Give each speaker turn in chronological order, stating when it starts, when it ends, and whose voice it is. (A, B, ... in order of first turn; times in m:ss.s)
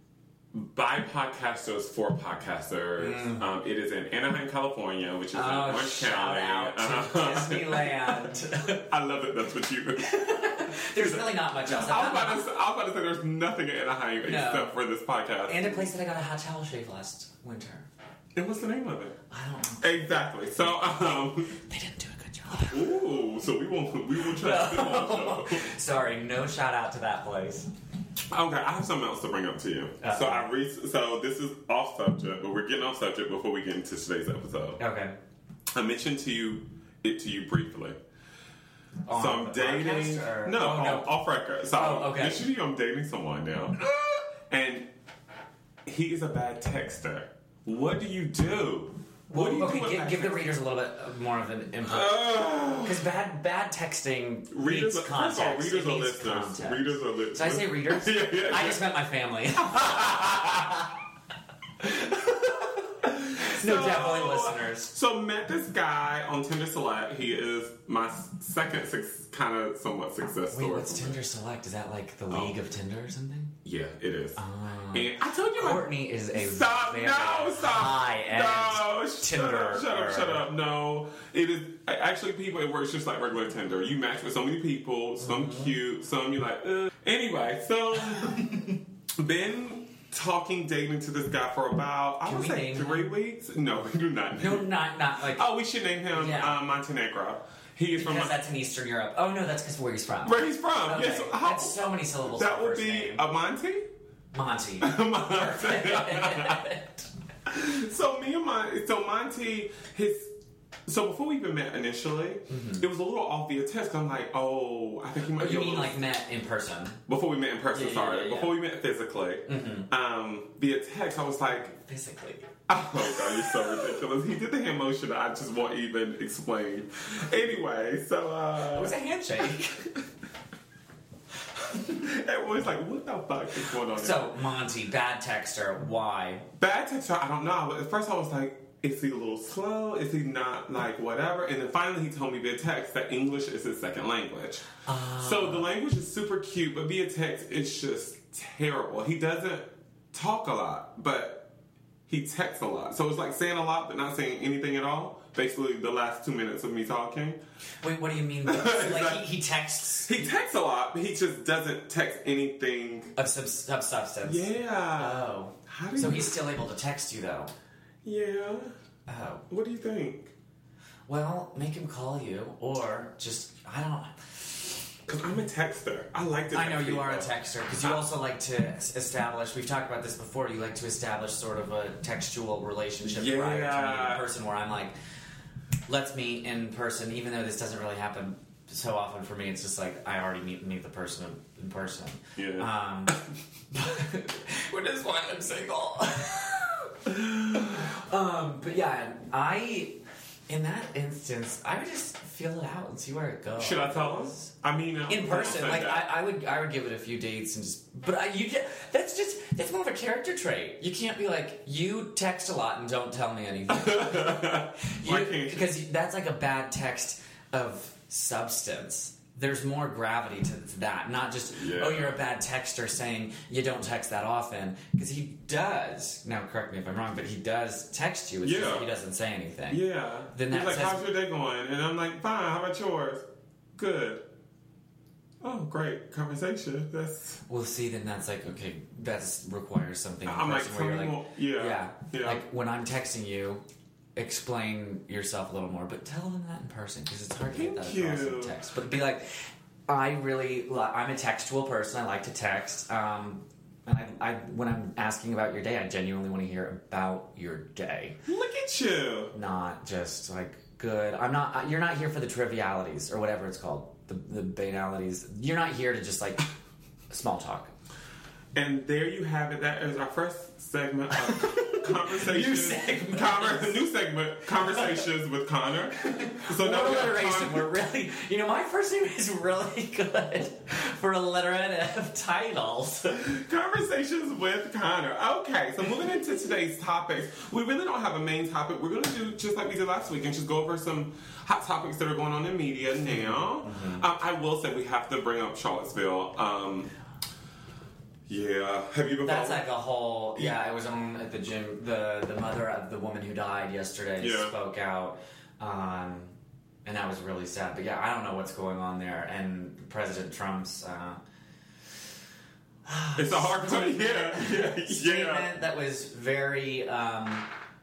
0:00.5-0:15.9 A
0:03.0-0:03.4 B
0:05.3-0:08.8 B
0:10.0-0:12.5 B
0:14.2-0:14.7 B
0:15.4-0:17.9 B
0:18.3-0:19.2 A
0:19.3-0:20.1 B
0:19.8-0:21.6 A
0:20.8-0:23.0 B
0:22.7-0:25.7 A
0:24.2-0:27.7 B
0:28.3-0:34.8 A
0:30.0-0:30.4 B
0:34.8-0:35.2 B
0:35.7-0:38.0 A
0:39.0-0:41.1 B
0:39.1-0:44.9 A
0:41.7-0:42.4 B
0:45.8-0:50.4 A
0:49.3-1:01.0 B
0:51.8-0:53.0 A
0:54.5-0:58.9 A
0:59.6-1:00.7 A
1:01.8-1:04.9 B
1:03.0-1:11.2 A
1:10.5-1:13.5 B
1:12.3-1:12.5 A
1:13.6-1:14.4 A
1:14.4-1:20.4 B
1:14.9-1:38.4 A
1:25.2-1:25.7 B
1:28.1-1:28.8 B
1:32.2-1:33.1 B
1:34.4-1:35.5 B
1:36.1-1:36.5 B
1:38.0-1:43.2 B
1:40.2-1:43.9 A
1:44.3-1:47.1 B
1:44.8-1:46.7 A
1:47.4-1:50.3 A
1:50.8-1:56.0 A
1:52.5-1:52.9 B
1:55.3-1:57.0 B
1:57.1-2:01.8 A
1:57.7-1:58.6 B
1:59.5-1:59.9 B
2:01.8-2:02.5 B
2:02.7-2:09.0 A
2:03.0-2:03.6 B
2:08.7-2:09.9 B
2:11.7-2:14.4 A
2:13.8-2:16.5 B
2:16.6-2:24.6 A
2:24.8-2:25.7 B
2:25.2-2:31.5 A
2:32.1-2:37.4 A
2:37.8-2:40.3 B
2:38.4-2:39.2 A
2:40.0-2:43.1 A
2:43.2-2:47.5 B
2:44.2-2:46.4 A
2:48.0-2:48.7 A
2:49.1-2:49.4 B
2:49.5-2:50.3 A
2:51.1-2:54.8 B
2:55.1-2:58.0 A
2:56.5-3:04.9 B
3:03.0-3:04.2 A
3:05.9-3:13.2 B
3:12.4-3:13.2 A
3:13.7-3:24.5 B
3:23.6-3:26.1 A
3:25.1-3:51.0 B
3:33.7-3:35.7 A
3:41.5-3:42.2 A
3:48.4-3:48.9 A
3:49.7-3:54.2 A
3:55.4-3:57.4 A
3:57.5-4:03.6 B
4:00.2-4:02.4 A
4:04.2-4:18.2 B
4:07.5-4:08.6 A
4:18.2-4:19.3 A
4:19.3-4:26.4 B
4:27.1-4:27.7 B
4:28.5-4:37.7 A
4:31.2-4:33.8 B
4:34.5-4:35.0 B
4:36.0-4:43.3 B
4:43.2-4:56.9 A
4:53.1-4:54.0 B
4:58.3-4:59.7 A
4:59.2-5:06.3 B
5:04.2-5:04.5 A
5:06.8-5:11.2 B
5:12.8-5:17.5 B
5:13.2-5:15.5 A